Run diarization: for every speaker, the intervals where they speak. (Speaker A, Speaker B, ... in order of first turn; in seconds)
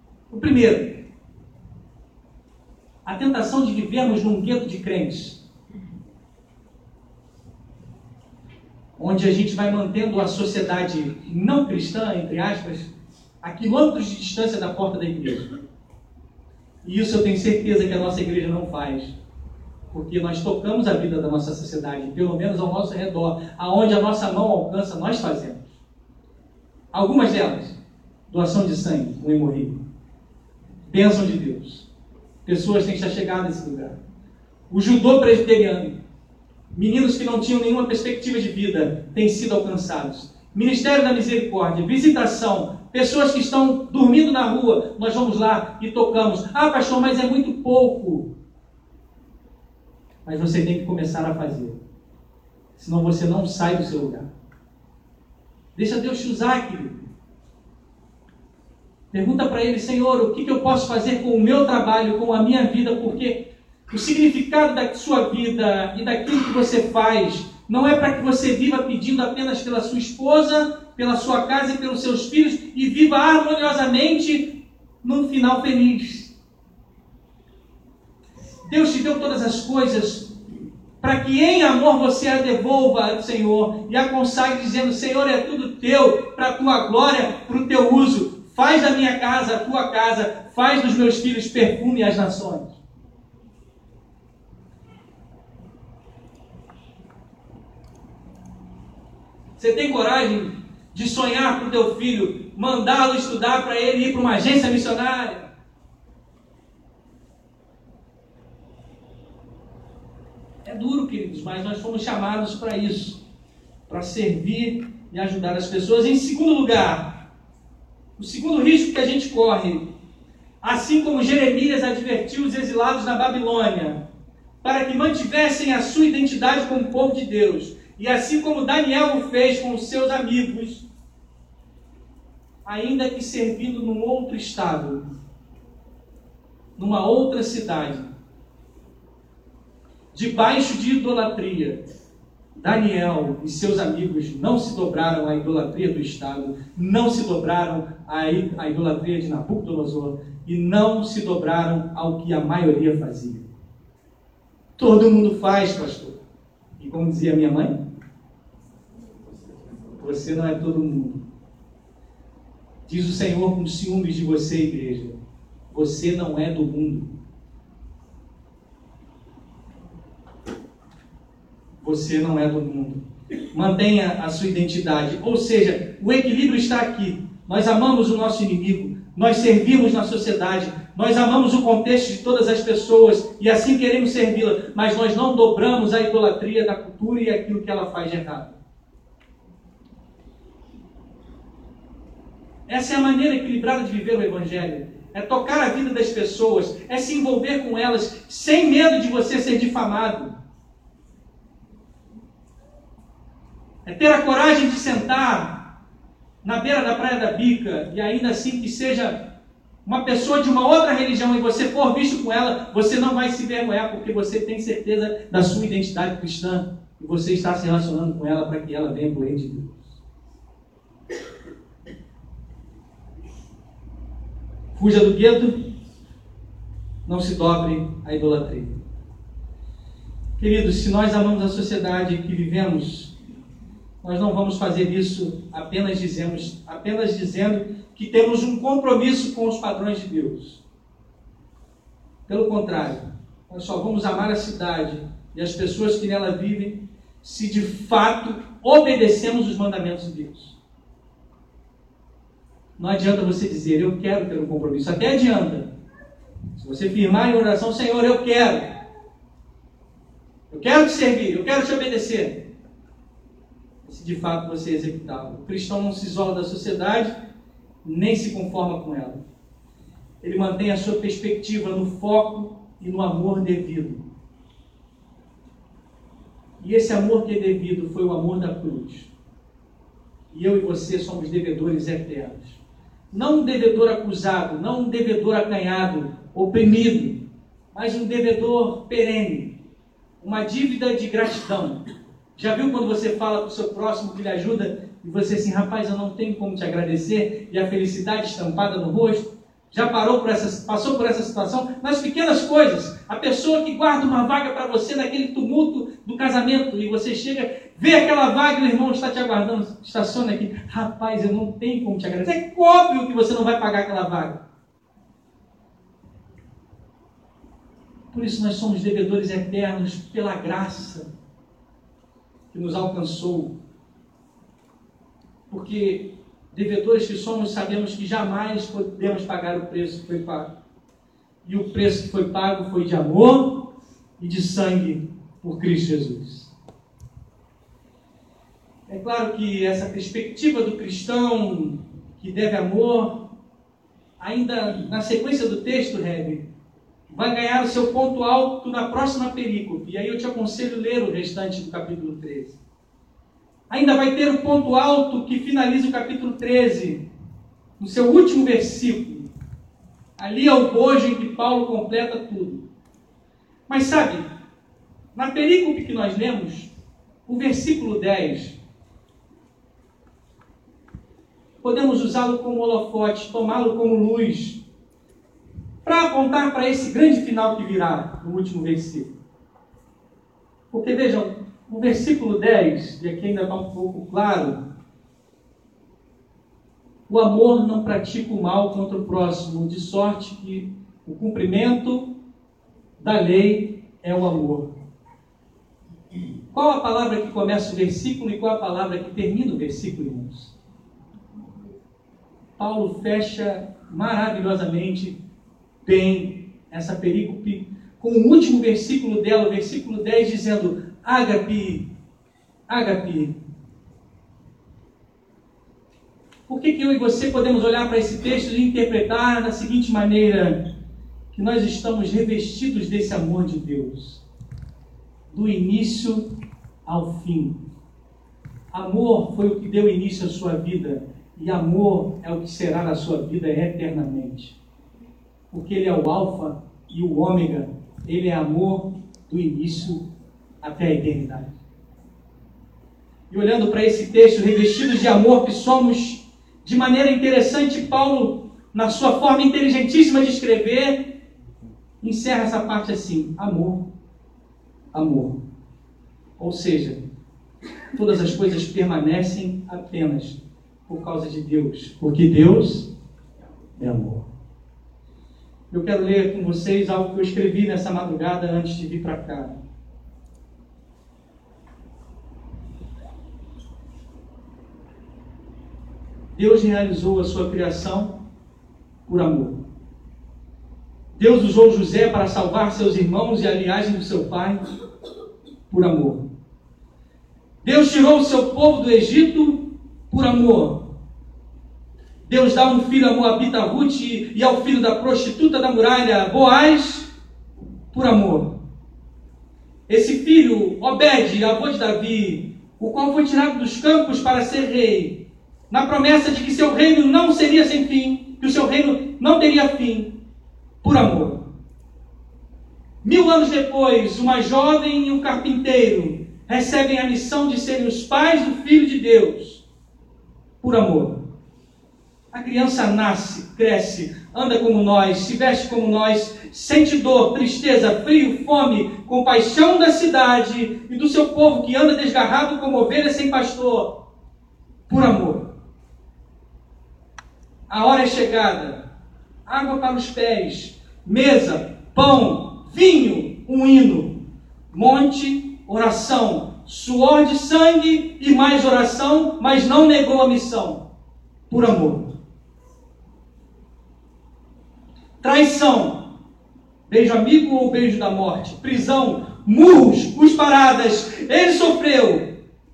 Speaker A: 0.3-1.0, 3.0-5.4, 9.0-15.5, 16.8-19.1, 19.9-25.8, 26.9-27.8, 28.3-29.8, 30.9-31.9, 32.5-34.0, 34.7-36.0, 36.7-48.3, 50.2-51.8, 52.8-54.3, 55.8-57.1, 59.1-76.3, 78.7-80.4, 81.0-92.8, 99.6-105.5, 110.7-113.2, 113.9-117.3, 118.2-119.9, 120.6-124.0, 124.6-130.8, 132.7-135.0, 136.8-138.1, 140.1-141.8, 142.6-153.5, 154.8-156.2, 156.8-157.7, 159.9-161.3, 162.9-165.2, 165.7-167.1, 171.8-188.6, 192.7-200.3, 203.8-205.7, 206.4-209.3, 209.8-220.0, 224.7-225.7, 227.1-228.8, 230.4-233.1, 234.0-240.6, 242.3-250.6, 252.8-255.7, 256.5-258.8, 260.5-262.5, 263.8-267.1, 267.8-269.2, 270.2-274.1, 276.6-279.1, 280.3-282.6, 283.1-287.2, 287.7-289.6, 290.2-291.8, 292.4-314.4, 318.1-321.1, 322.5-323.5, 325.5-330.5, 331.4-336.5, 338.9-343.3, 344.2-346.4, 347.1-352.6, 353.7-357.1, 357.8-359.3, 360.2-362.6, 363.7-364.2, 365.1-366.7, 367.3-368.6, 371.6-374.6, 375.8-379.1, 380.7-384.6, 387.1-392.1, 393.0-394.7, 396.5-400.5, 402.6-405.2, 405.8-411.9, 412.7-413.3, 416.5-420.7, 421.3-424.2, 425.3-426.3, 426.9-427.6, 428.7-434.6, 435.5-440.0, 440.6-441.6, 443.3-451.2, 452.0-453.9, 454.9-455.4, 456.4-457.0, 457.9-462.9, 463.8-464.3, 465.7-469.6, 476.4-478.2, 479.1-479.6, 481.1-484.6, 485.7-486.3, 487.6-490.9, 492.2-497.1, 497.9-498.6, 499.9-510.2, 510.8-511.5, 513.0-519.6, 520.6-521.2, 522.3-533.9, 534.9-535.5, 537.7-538.8, 539.5-550.8, 551.5-552.1, 555.2-556.1, 556.9-562.2